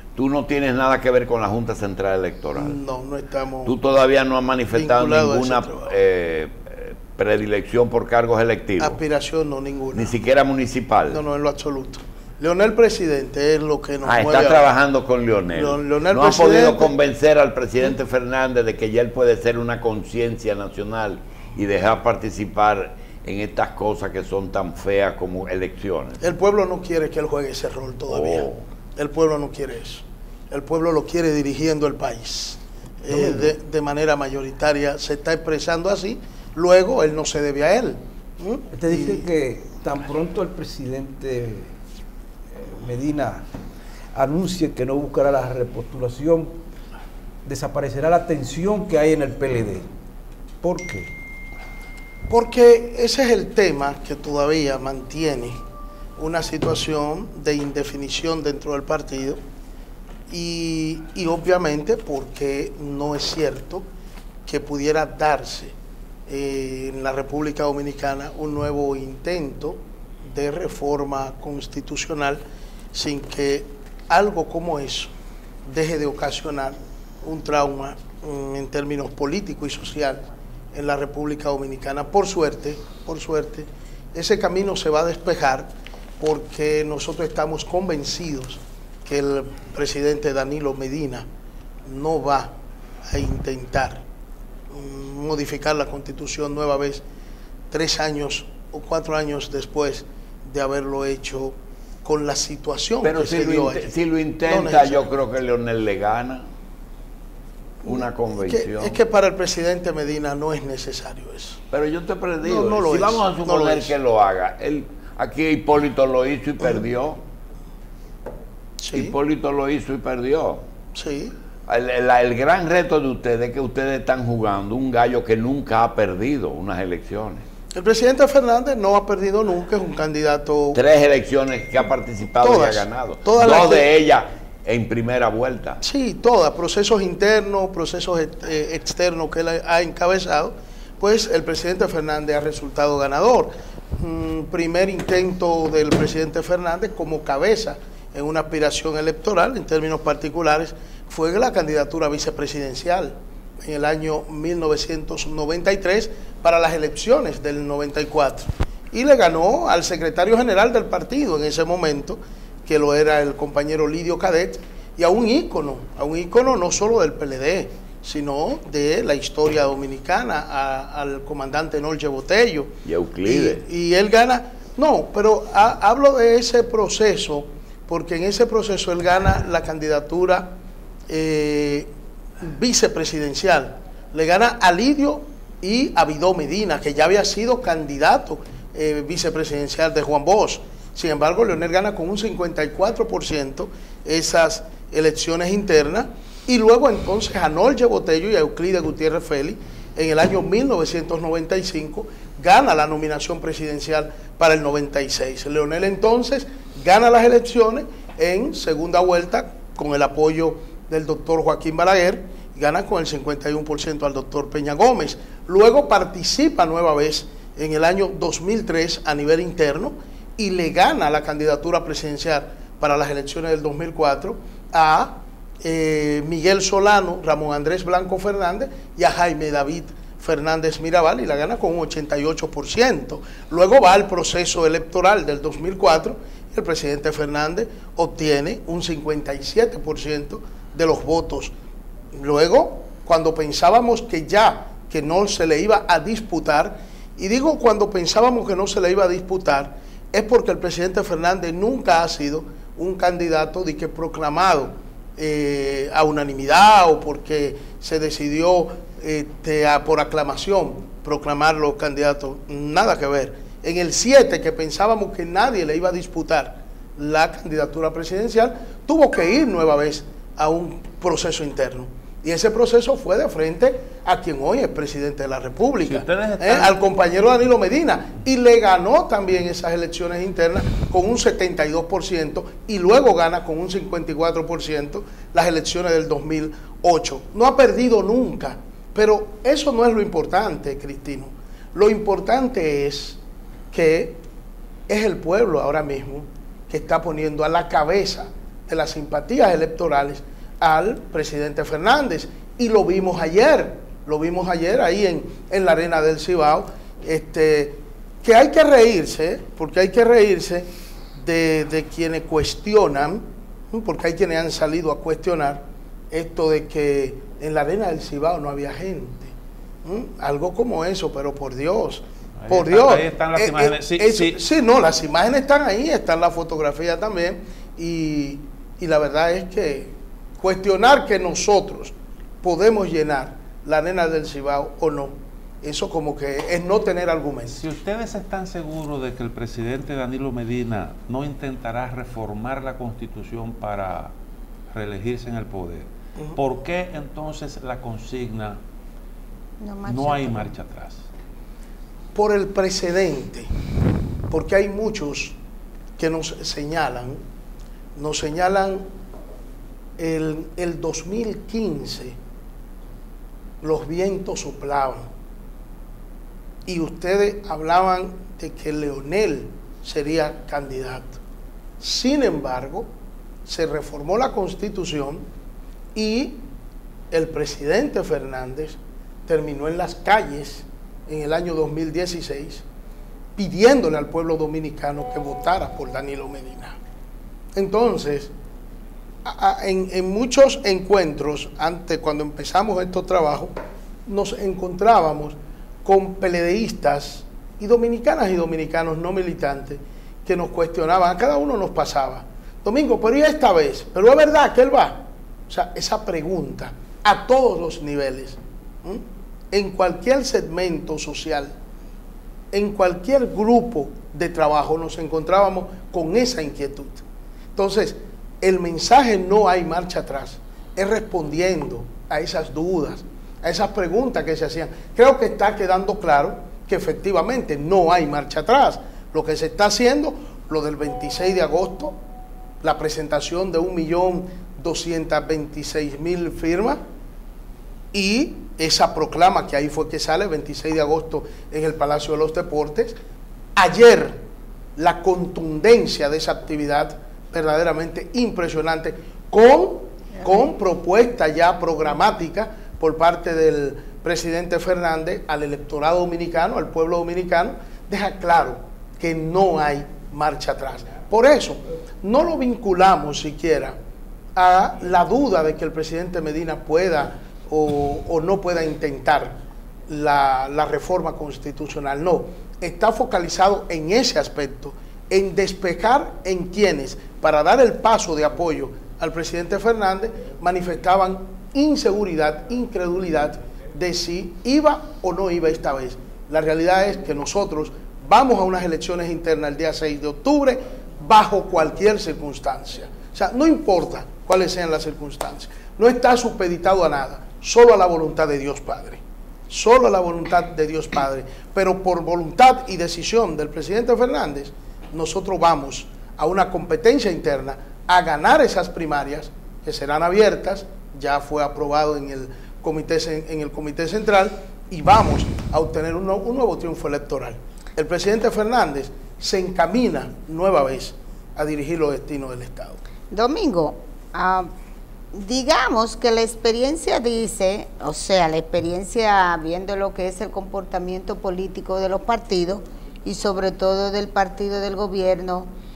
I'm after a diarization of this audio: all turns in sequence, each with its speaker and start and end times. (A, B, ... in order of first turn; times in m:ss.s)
0:00.2-0:02.8 A
0:02.6-0:03.7 B
0:03.6-0:09.0 A
0:04.7-0:05.9 B
0:08.8-0:10.1 B
0:09.9-0:11.2 A
0:11.1-0:14.7 B
0:14.0-0:26.2 A
0:15.6-0:16.9 B
0:26.2-0:39.2 B
0:28.1-0:28.6 A
0:33.1-0:33.5 C
0:38.7-0:41.7 C
0:42.6-0:43.4 C
0:44.1-0:46.6 C
0:47.4-0:49.9 C
0:50.6-0:51.1 C
0:52.3-0:55.6 B
0:56.2-0:59.4 B
1:00.3-1:03.8 B
1:04.4-1:05.8 B
1:06.3-1:12.4 B
1:12.9-1:15.1 B
1:15.6-1:31.2 B
1:31.8-1:32.5 B
1:33.1-1:34.0 B
1:34.7-1:37.0 B
1:37.7-1:43.9 B
1:43.0-1:46.4 A
1:44.5-1:45.1 B
1:47.8-1:51.6 B
1:47.8-1:49.0 A
1:51.7-1:57.2 A
1:52.4-1:53.9 B
1:58.8-1:59.1 B
1:58.9-2:00.6 A
2:00.9-2:01.3 B
2:01.7-2:07.4 A
2:07.7-2:10.8 B
2:10.7-2:15.8 A
2:12.4-2:13.9 B
2:15.8-2:52.7 B
2:52.8-2:53.6 A
2:53.2-3:00.6 B
3:01.1-3:01.9 B
3:02.4-4:01.5 B
4:02.1-4:53.2 B
4:35.8-4:36.8 D
4:53.7-4:54.2 B
4:54.9-5:19.3 B
5:19.8-5:37.6 B
5:22.4-5:24.4 D
5:37.6-5:44.1 D
5:44.7-5:48.6 D
5:49.6-5:50.5 E
5:49.8-5:51.0 D
5:52.2-5:53.5 B
5:54.3-5:55.4 B
5:56.0-5:57.2 B
5:58.0-5:58.8 B
6:00.0-6:02.2 B
6:03.6-6:05.1 B
6:06.7-6:11.2 B
6:11.8-6:12.9 B
6:13.4-6:15.2 B
6:15.9-6:16.4 B
6:17.1-6:22.6 B
6:23.4-6:26.8 B
6:27.6-6:28.3 B
6:29.2-6:33.5 B
6:34.1-6:51.5 B
6:52.5-6:57.0 B
6:57.6-7:12.0 B
7:12.6-7:16.8 B
7:17.9-7:23.0 B
7:23.6-7:24.2 B
7:24.8-7:43.8 B
7:44.4-8:42.8 B
8:43.1-8:44.5 E
8:45.1-8:55.5 E